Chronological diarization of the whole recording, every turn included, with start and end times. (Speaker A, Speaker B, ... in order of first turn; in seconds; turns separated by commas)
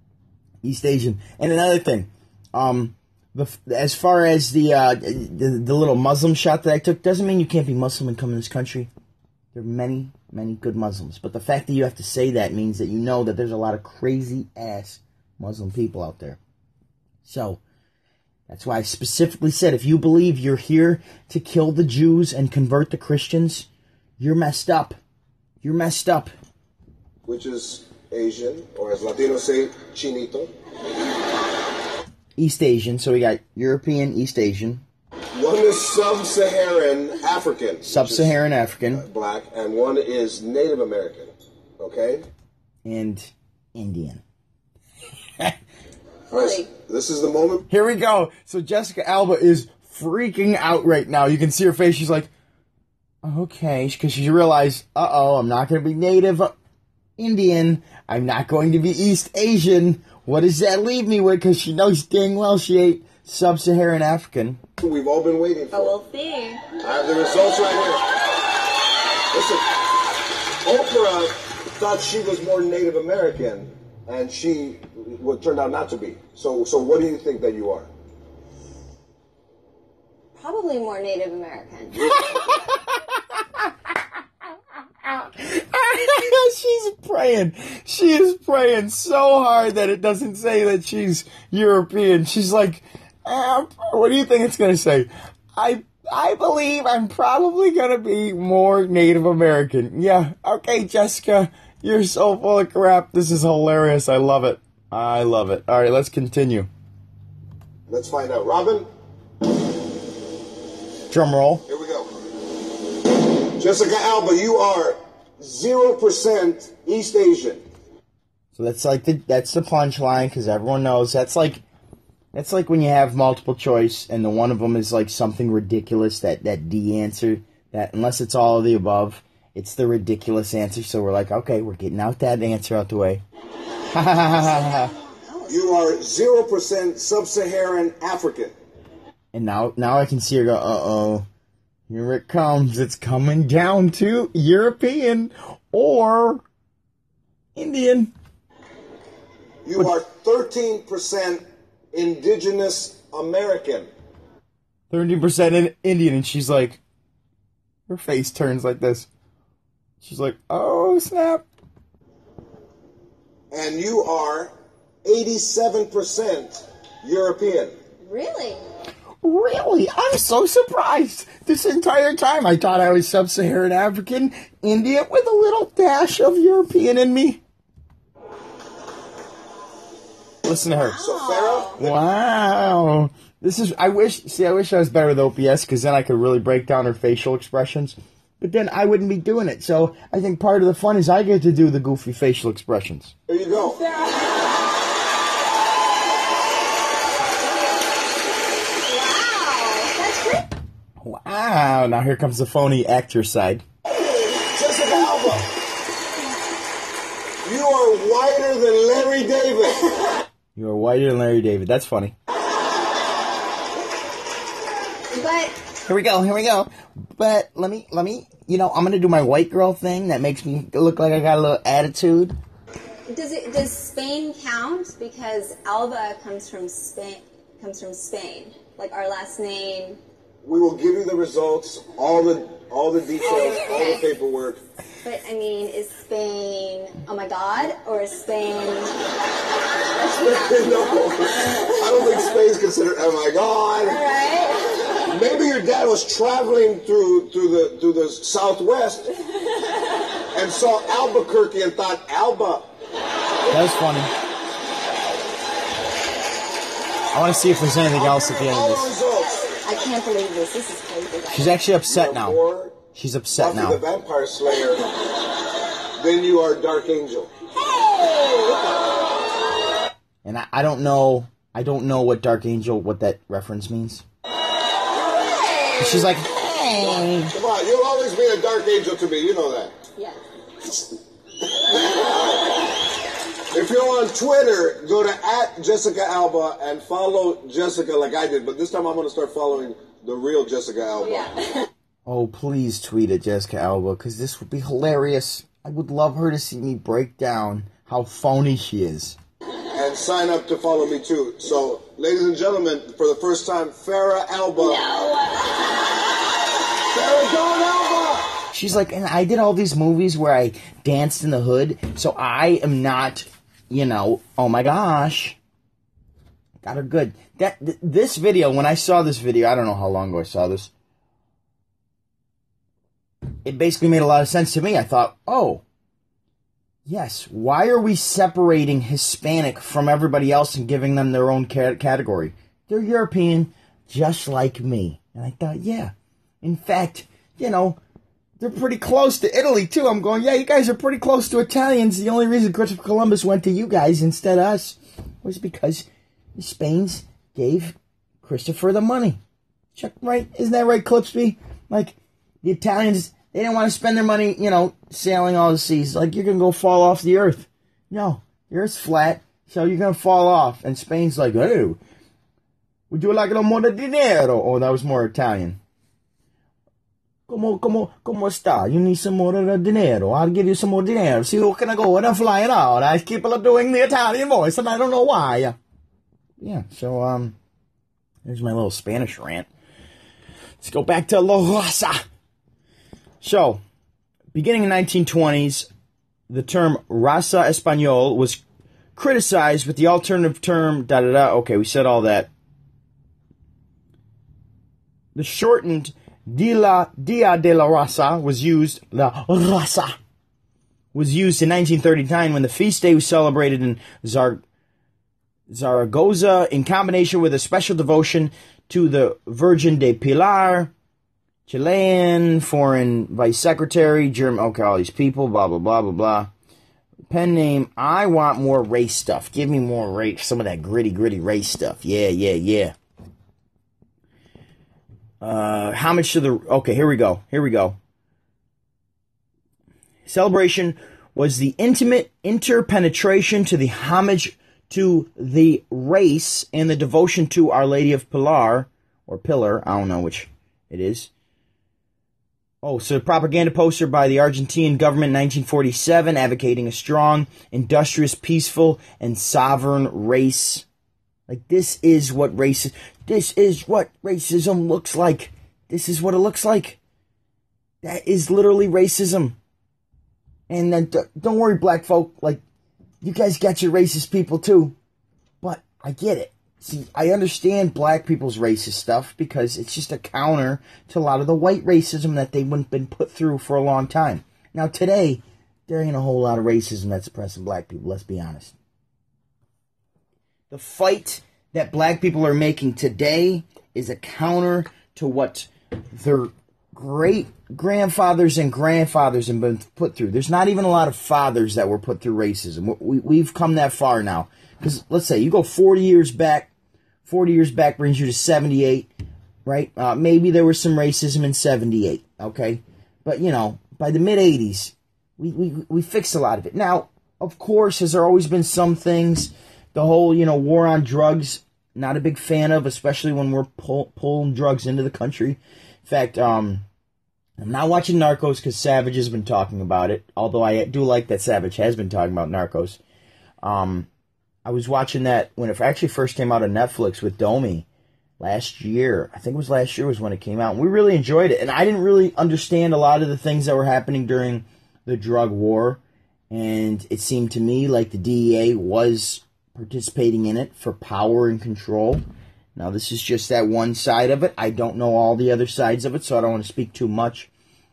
Speaker A: 0.6-8.9, Speaker A: 9.5-16.4, Speaker A: 17.2-17.6, Speaker A: 18.5-23.7, Speaker A: 24.2-25.0, Speaker A: 25.6-26.3, Speaker B: 27.2-30.5, Speaker A: 32.4-34.8, Speaker B: 35.3-38.4, Speaker A: 37.8-39.0, Speaker B: 38.9-42.2, Speaker A: 42.8-44.2, Speaker C: 46.3-46.7, Speaker B: 46.3-47.6, Speaker A: 47.7-52.3, Speaker A: 53.2-56.5, Speaker A: 57.2-64.6, Speaker B: 64.8-66.0, Speaker C: 65.7-66.6, Speaker B: 66.8-68.1, Speaker B: 69.3-69.8, Speaker B: 70.6-77.9, Speaker C: 80.3-82.7, Speaker A: 85.0-106.7, Speaker B: 107.9-108.9, Speaker A: 111.1-111.6, Speaker B: 111.7-112.1, Speaker B: 113.5-117.6, Speaker A: 118.5-121.6, Speaker A: 122.3-133.2, Speaker A: 133.9-134.9, Speaker C: 135.2-135.5, Speaker B: 135.4-138.5, Speaker A: 139.3-141.2, Speaker A: 141.9-146.4, Speaker A: 147.5-148.1, Speaker B: 149.6-153.9, Speaker A: 154.9-156.8, Speaker A: 157.9-159.1, Speaker A: 160.0-161.4, Speaker B: 163.5-164.5, Speaker B: 165.0-167.8, Speaker C: 168.0-168.6, Speaker A: 169.2-177.4, Speaker A: 180.4-181.0, Speaker C: 180.8-181.8, Speaker B: 181.0-182.0, Speaker A: 181.8-193.1, Speaker B: 193.3-193.8, Speaker C: 193.7-194.3, Speaker C: 198.8-200.5, Speaker A: 201.0-203.6, Speaker B: 204.3-205.5, Speaker B: 207.4-209.9, Speaker A: 210.6-212.1, Speaker C: 215.1-215.6, Speaker A: 215.8-222.3, Speaker C: 223.1-230.0, Speaker B: 230.4-234.6, Speaker C: 233.2-234.0, Speaker C: 235.0-238.9, Speaker B: 240.0-244.0, Speaker C: 240.2-241.7, Speaker C: 243.8-244.9, Speaker B: 245.0-249.1, Speaker B: 250.3-252.7, Speaker A: 253.5-254.1, Speaker A: 257.1-258.9, Speaker B: 257.9-259.6, Speaker C: 259.6-261.5, Speaker A: 261.3-262.4, Speaker B: 261.9-262.8, Speaker A: 262.9-263.8, Speaker B: 263.3-264.9, Speaker B: 265.9-267.3, Speaker C: 267.6-268.8, Speaker A: 270.2-274.0, Speaker A: 275.7-277.3, Speaker B: 277.2-279.7, Speaker B: 281.7-282.1, Speaker B: 283.5-291.3, Speaker A: 292.1-299.2, Speaker B: 299.7-304.9, Speaker B: 306.9-308.4, Speaker A: 308.5-315.4, Speaker A: 316.6-320.7, Speaker A: 323.4-325.6, Speaker A: 326.9-337.8, Speaker A: 338.4-349.2, Speaker A: 349.8-361.8, Speaker A: 362.9-365.6, Speaker A: 367.3-375.6, Speaker A: 376.4-377.4, Speaker A: 378.2-379.5, Speaker A: 380.6-382.0, Speaker A: 383.2-383.6, Speaker A: 384.3-385.7, Speaker A: 386.3-388.4, Speaker A: 388.9-392.3, Speaker A: 395.1-399.9, Speaker A: 400.9-404.4, Speaker A: 405.5-410.7, Speaker A: 411.5-416.3, Speaker A: 417.1-422.7, Speaker A: 425.2-427.8, Speaker A: 430.0-441.1, Speaker A: 442.6-450.6, Speaker A: 451.3-456.8, Speaker A: 457.8-459.4, Speaker A: 460.5-462.4, Speaker A: 463.0-464.7, Speaker A: 465.4-478.6, Speaker A: 480.5-496.5, Speaker A: 497.0-498.9, Speaker A: 499.4-516.6, Speaker A: 517.4-522.8, Speaker A: 523.4-523.9, Speaker A: 524.4-527.6, Speaker A: 528.2-542.0, Speaker A: 542.5-547.3